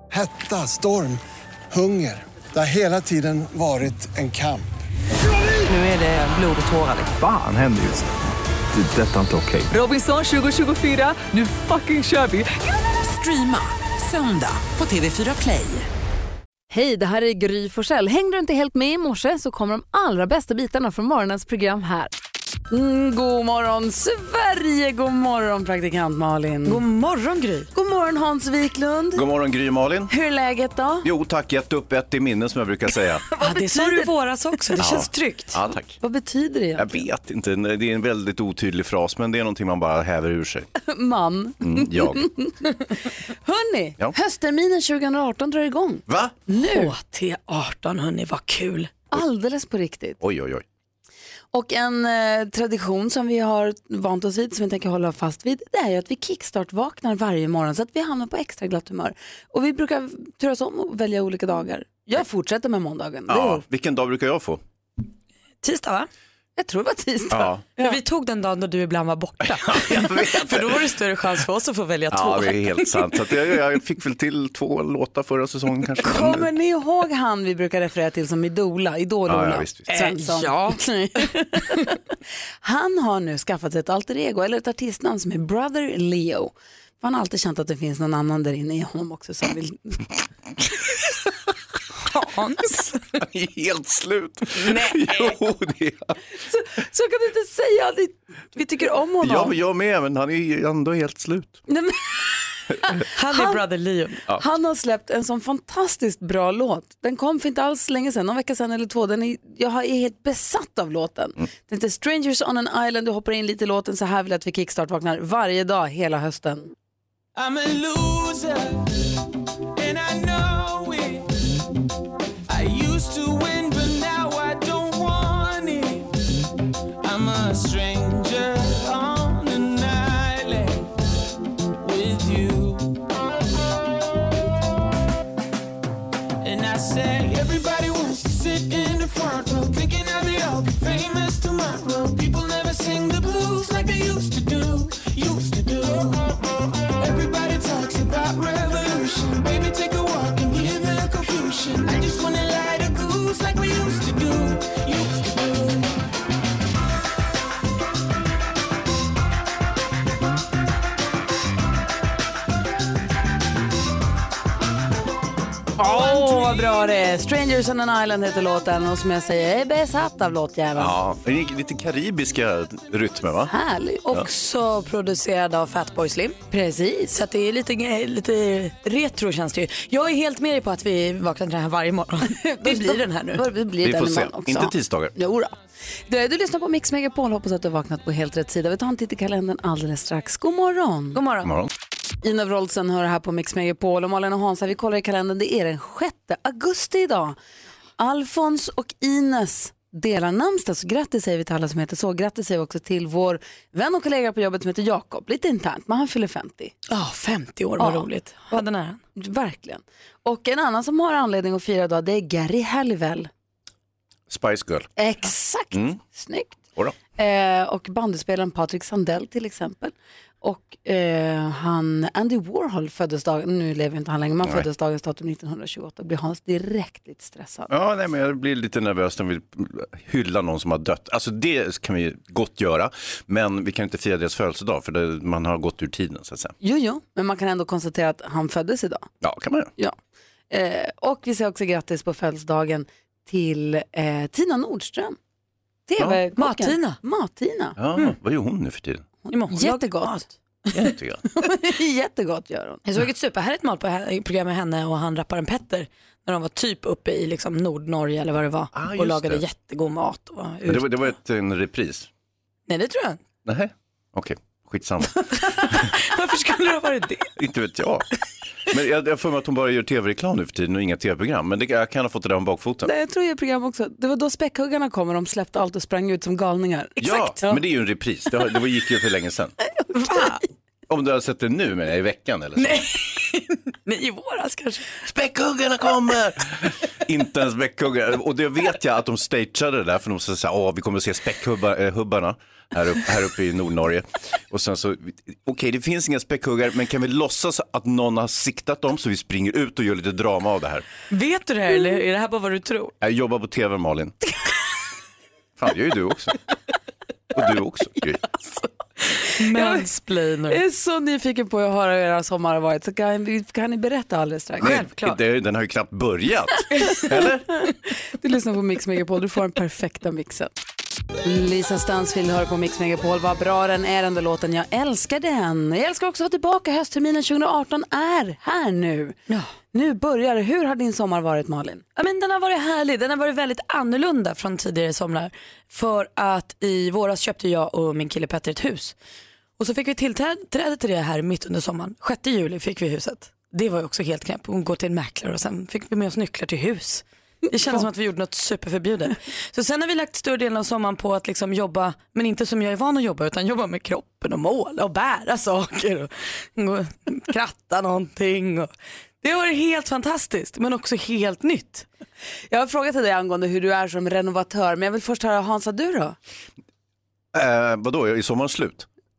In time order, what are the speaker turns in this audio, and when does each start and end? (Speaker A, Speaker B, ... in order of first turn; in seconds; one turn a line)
Speaker A: 0.1-4.7
Speaker B: 5.6-7.2
Speaker C: 7.2-8.1
Speaker C: 8.7-9.7
Speaker B: 9.9-15.9
Speaker D: 16.7-22.1
Speaker D: 22.7-26.8
Speaker E: 26.6-27.7
Speaker D: 27.7-29.2
Speaker F: 29.1-30.1
Speaker D: 30.1-31.1
Speaker F: 31.0-33.2
Speaker D: 33.3-34.1
Speaker E: 33.4-35.6
Speaker F: 34.8-36.0
Speaker D: 36.0-37.0
Speaker F: 36.8-40.7
Speaker D: 40.8-46.9
Speaker F: 41.6-42.3
Speaker F: 46.1-46.4
Speaker E: 46.6-49.0
Speaker D: 49.1-50.2
Speaker F: 50.2-50.6
Speaker D: 51.5-63.6
Speaker F: 63.3-64.6
Speaker E: 65.6-66.1
Speaker D: 66.6-68.0
Speaker F: 67.3-67.7
Speaker E: 67.8-73.0
Speaker F: 69.4-70.8
Speaker F: 72.1-76.5
Speaker D: 76.0-82.0
Speaker F: 79.3-80.0
Speaker D: 82.6-90.0
Speaker E: 92.1-93.0
Speaker F: 93.1-96.2
Speaker E: 94.7-95.3
Speaker D: 96.5-99.5
Speaker F: 99.2-101.6
Speaker D: 101.7-103.6
Speaker E: 103.1-104.2
Speaker D: 104.3-116.7
Speaker G: 117.3-119.0
Speaker G: 119.8-121.3
Speaker G: 122.5-126.1
Speaker G: 127.0-130.9
Speaker G: 131.8-133.0
Speaker G: 136.4-146.4
Speaker G: 147.0-155.9
Speaker D: 165.8-170.9
Speaker F: 170.8-173.5
Speaker D: 173.5-174.2
Speaker E: 174.2-176.4
Speaker D: 176.5-177.2
Speaker E: 177.1-183.5
Speaker D: 182.3-185.6
Speaker F: 183.8-185.2
Speaker D: 186.1-191.2
Speaker E: 191.1-191.5
Speaker F: 191.4-191.7
Speaker D: 192.2-197.4
Speaker D: 198.0-206.7
Speaker E: 206.9-209.0
Speaker D: 207.8-208.6
Speaker D: 209.2-213.3
Speaker F: 214.3-214.9
Speaker D: 215.0-216.6
Speaker F: 215.7-216.0
Speaker D: 217.2-227.7
Speaker F: 227.7-236.5
Speaker D: 236.6-239.1
Speaker F: 239.2-239.7
Speaker D: 240.5-245.2
Speaker D: 245.9-247.8
Speaker E: 246.3-247.0
Speaker F: 247.8-249.1
Speaker D: 249.3-250.2
Speaker E: 249.3-250.3
Speaker F: 250.7-251.2
Speaker D: 251.2-252.8
Speaker E: 252.8-261.0
Speaker F: 258.7-259.4
Speaker F: 260.6-262.1
Speaker E: 262.7-263.2
Speaker F: 263.4-265.9
Speaker E: 265.3-267.3
Speaker F: 267.4-268.1
Speaker F: 268.7-272.9
Speaker D: 272.8-277.6
Speaker E: 277.0-277.4
Speaker F: 277.0-279.6
Speaker E: 279.9-280.4
Speaker F: 280.9-282.8
Speaker E: 282.6-284.9
Speaker F: 285.0-300.8
Speaker E: 301.1-302.9
Speaker F: 303.0-304.1
Speaker F: 305.6-306.4
Speaker F: 307.3-308.2
Speaker E: 309.2-310.6
Speaker D: 309.4-309.9
Speaker D: 310.5-314.7
Speaker F: 314.6-317.7
Speaker E: 314.6-315.2
Speaker D: 318.2-320.5
Speaker D: 321.2-329.2
Speaker D: 329.7-331.8
Speaker E: 331.9-338.9
Speaker E: 339.6-358.7
Speaker E: 359.2-361.9
Speaker D: 362.5-366.1
Speaker F: 367.3-368.9